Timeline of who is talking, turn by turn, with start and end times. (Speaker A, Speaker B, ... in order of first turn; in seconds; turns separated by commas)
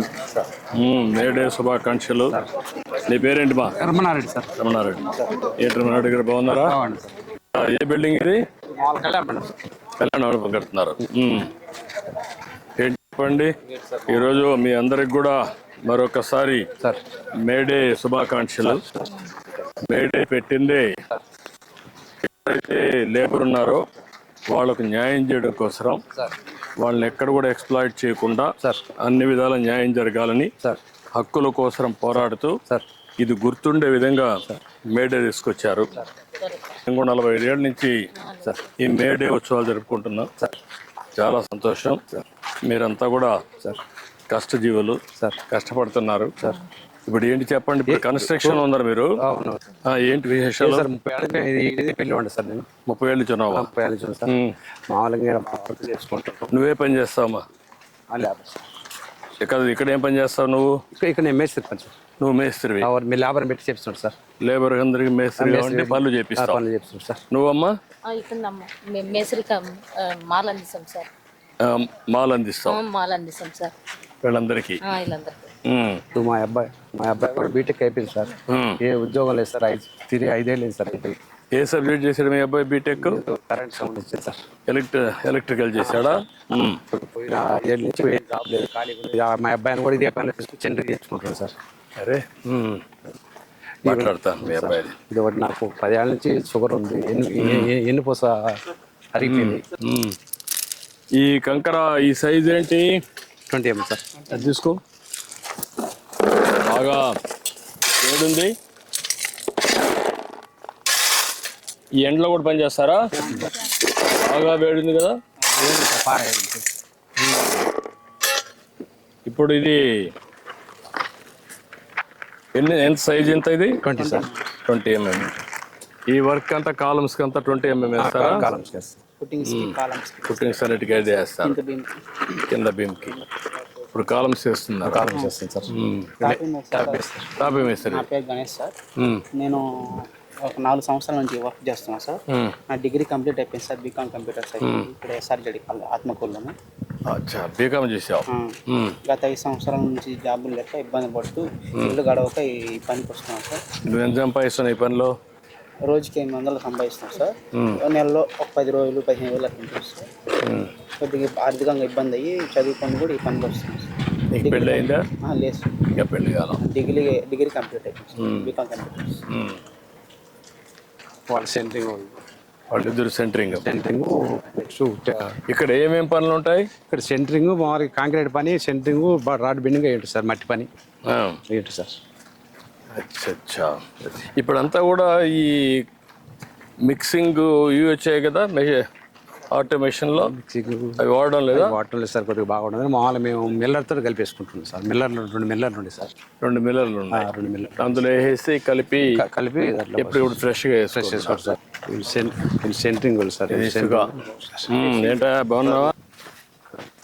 Speaker A: 0.8-2.4, Speaker A: 3.0-3.8, Speaker B: 3.8-4.5, Speaker A: 4.6-6.8, Speaker B: 6.7-7.1, Speaker A: 7.5-8.4, Speaker B: 8.8-9.5, Speaker A: 10.0-11.5, Speaker A: 12.8-13.5, Speaker B: 13.7-14.3, Speaker A: 14.1-16.6, Speaker A: 17.4-18.8, Speaker B: 18.6-19.1, Speaker A: 19.8-20.9, Speaker A: 22.2-23.8, Speaker A: 24.5-26.0, Speaker A: 26.8-30.5, Speaker B: 28.6-28.9, Speaker A: 31.1-32.5, Speaker A: 33.2-34.3, Speaker A: 34.9-35.9, Speaker C: 36.2-36.8, Speaker A: 36.9-37.9, Speaker C: 38.2-38.7, Speaker A: 38.8-40.3, Speaker A: 41.2-42.0, Speaker A: 42.6-43.4, Speaker A: 44.3-46.3, Speaker A: 47.0-49.2, Speaker B: 47.9-48.6, Speaker B: 49.2-49.6, Speaker A: 49.8-50.9, Speaker B: 50.6-52.7, Speaker A: 52.9-53.7, Speaker B: 53.5-54.3, Speaker A: 54.2-54.5, Speaker B: 54.9-56.5, Speaker A: 56.5-57.4, Speaker B: 58.1-58.6, Speaker A: 59.4-60.8, Speaker B: 61.0-62.0, Speaker A: 62.2-62.9, Speaker B: 62.8-64.2, Speaker A: 64.4-66.6, Speaker B: 65.4-67.2, Speaker A: 67.3-67.7, Speaker C: 68.1-71.1, Speaker A: 71.6-72.8, Speaker C: 72.7-73.7, Speaker A: 74.2-74.8, Speaker C: 74.8-75.5, Speaker A: 75.6-76.0, Speaker B: 76.1-81.2, Speaker A: 78.5-78.8, Speaker A: 81.5-83.2, Speaker B: 82.9-84.4, Speaker A: 84.7-86.8, Speaker B: 85.8-86.1, Speaker B: 86.9-91.5, Speaker A: 92.0-92.8, Speaker B: 93.8-98.6, Speaker A: 93.8-94.9, Speaker A: 97.4-97.7, Speaker B: 99.1-99.6, Speaker A: 99.2-100.2, Speaker A: 101.2-103.0, Speaker B: 103.5-104.1, Speaker A: 104.3-104.8, Speaker A: 106.5-107.0, Speaker A: 108.0-108.5, Speaker A: 112.0-113.0, Speaker A: 114.0-115.1, Speaker B: 115.5-116.7, Speaker B: 117.2-117.6, Speaker A: 119.2-119.8, Speaker A: 122.5-123.8, Speaker B: 123.8-124.2, Speaker D: 123.9-124.5, Speaker A: 124.6-125.3, Speaker A: 126.1-128.5, Speaker B: 128.0-129.0, Speaker D: 129.2-131.9, Speaker A: 129.4-131.6, Speaker A: 132.4-133.2, Speaker A: 133.9-135.1, Speaker B: 134.8-135.7, Speaker A: 135.7-136.4, Speaker D: 136.2-137.1, Speaker B: 136.7-137.3, Speaker A: 137.4-138.1, Speaker D: 137.6-138.7, Speaker D: 139.3-139.6, Speaker D: 140.5-142.2, Speaker A: 142.3-142.6, Speaker D: 142.7-146.5, Speaker A: 144.6-144.9, Speaker A: 147.1-149.0, Speaker D: 148.3-148.5, Speaker D: 149.1-153.6, Speaker A: 153.8-155.1, Speaker D: 155.9-160.1, Speaker A: 157.5-157.8, Speaker A: 160.4-160.7, Speaker D: 161.0-165.8, Speaker A: 164.3-165.0, Speaker A: 165.9-166.6, Speaker D: 166.6-169.1, Speaker A: 168.2-168.5, Speaker A: 169.3-169.6, Speaker B: 171.3-172.2, Speaker A: 172.7-173.7, Speaker B: 173.6-175.3, Speaker A: 175.4-176.7, Speaker B: 176.9-180.7, Speaker A: 181.1-181.4, Speaker B: 181.5-182.0, Speaker A: 182.9-185.8, Speaker A: 186.8-188.8, Speaker A: 189.5-190.3, Speaker B: 190.2-196.1, Speaker A: 191.0-191.8, Speaker A: 196.4-199.2, Speaker B: 197.2-197.9, Speaker B: 199.1-200.3, Speaker A: 199.9-201.6, Speaker B: 200.9-204.7, Speaker A: 203.5-204.2, Speaker A: 204.7-205.9